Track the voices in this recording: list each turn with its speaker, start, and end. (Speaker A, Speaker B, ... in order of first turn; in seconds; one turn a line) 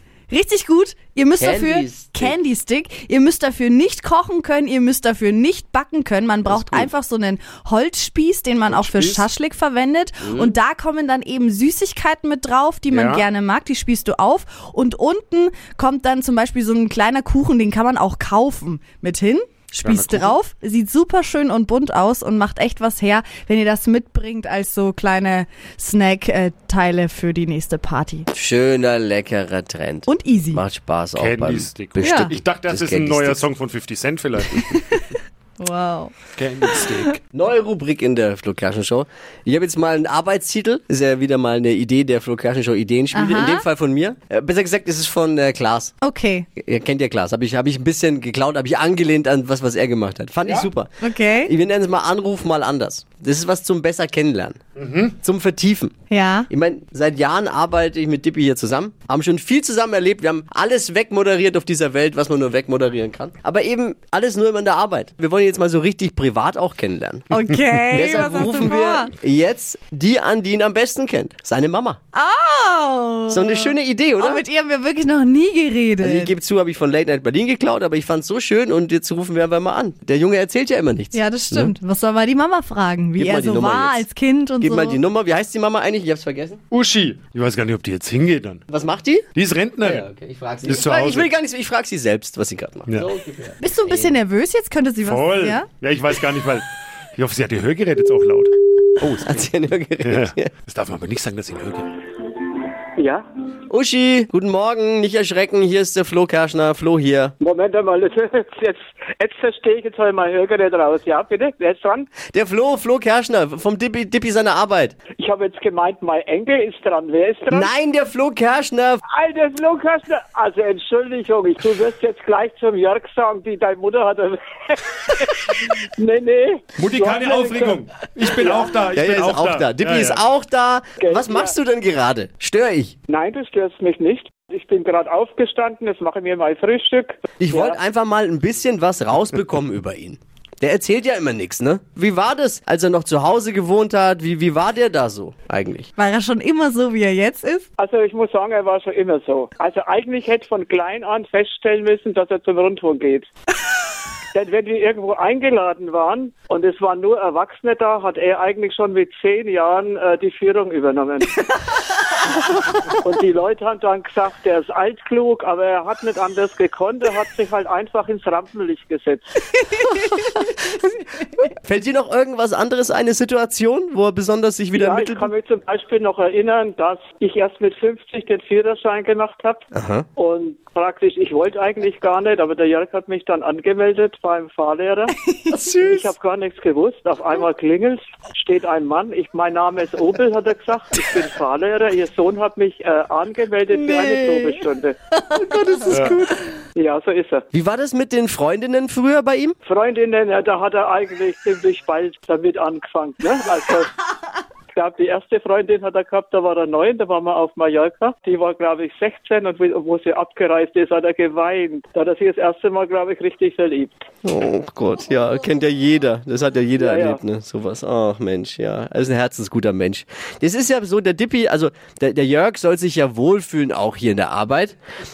Speaker A: 0.3-28.3
Speaker B: 1.4-2.4
Speaker C: 8.7-9.2
Speaker B: 10.2-10.6
Speaker C: 12.9-13.2
Speaker C: 19.8-20.4
Speaker B: 28.3-33.4
Speaker A: 30.1-30.6
Speaker C: 31.1-34.7
Speaker A: 32.0-32.3
Speaker A: 34.5-37.1
Speaker C: 36.4-37.2
Speaker B: 37.3-45.9
Speaker A: 43.1-43.6
Speaker A: 46.0-46.5
Speaker B: 46.6-54.6
Speaker A: 51.0-51.5
Speaker C: 54.8-55.1
Speaker B: 55.2-55.9
Speaker A: 56.1-56.5
Speaker B: 56.5-67.3
Speaker A: 67.3-69.1
Speaker B: 67.9-72.0
Speaker A: 72.1-76.3
Speaker B: 73.3-74.4
Speaker B: 76.0-81.7
Speaker A: 81.1-85.0
Speaker B: 83.2-84.0
Speaker B: 84.6-86.6
Speaker C: 86.7-88.6
Speaker B: 88.7-89.2
Speaker C: 89.3-90.0
Speaker B: 89.8-94.2
Speaker C: 90.6-91.3
Speaker A: 93.6-95.7
Speaker C: 95.0-99.4
Speaker B: 99.2-100.5
Speaker C: 100.0-102.0
Speaker D: 103.0-103.2
Speaker B: 103.7-107.3
Speaker D: 107.4-112.1
Speaker B: 112.3-115.0
Speaker D: 115.2-117.7
Speaker B: 117.5-119.0
Speaker D: 119.1-128.7
Speaker C: 126.8-130.2
Speaker B: 128.9-132.9
Speaker D: 131.0-131.5
Speaker D: 133.1-137.8
Speaker B: 137.4-145.9
Speaker A: 146.0-147.7
Speaker D: 147.8-153.3
Speaker D: 154.3-161.6
Speaker D: 163.0-169.2
Speaker A: 169.6-170.4
Speaker B: 171.5-175.3
Speaker D: 174.7-179.6
Speaker B: 179.7-180.1
Speaker D: 180.2-185.1
Speaker A: 185.1-185.5
Speaker B: 185.5-186.1
Speaker D: 185.8-194.9
Speaker A: 193.7-194.6
Speaker A: 195.1-196.2
Speaker B: 195.3-196.4
Speaker C: 195.9-196.2
Speaker D: 196.8-197.4
Speaker B: 197.5-199.6
Speaker D: 199.7-203.9
Speaker D: 204.7-214.0
Speaker B: 214.2-224.8
Speaker D: 216.8-217.2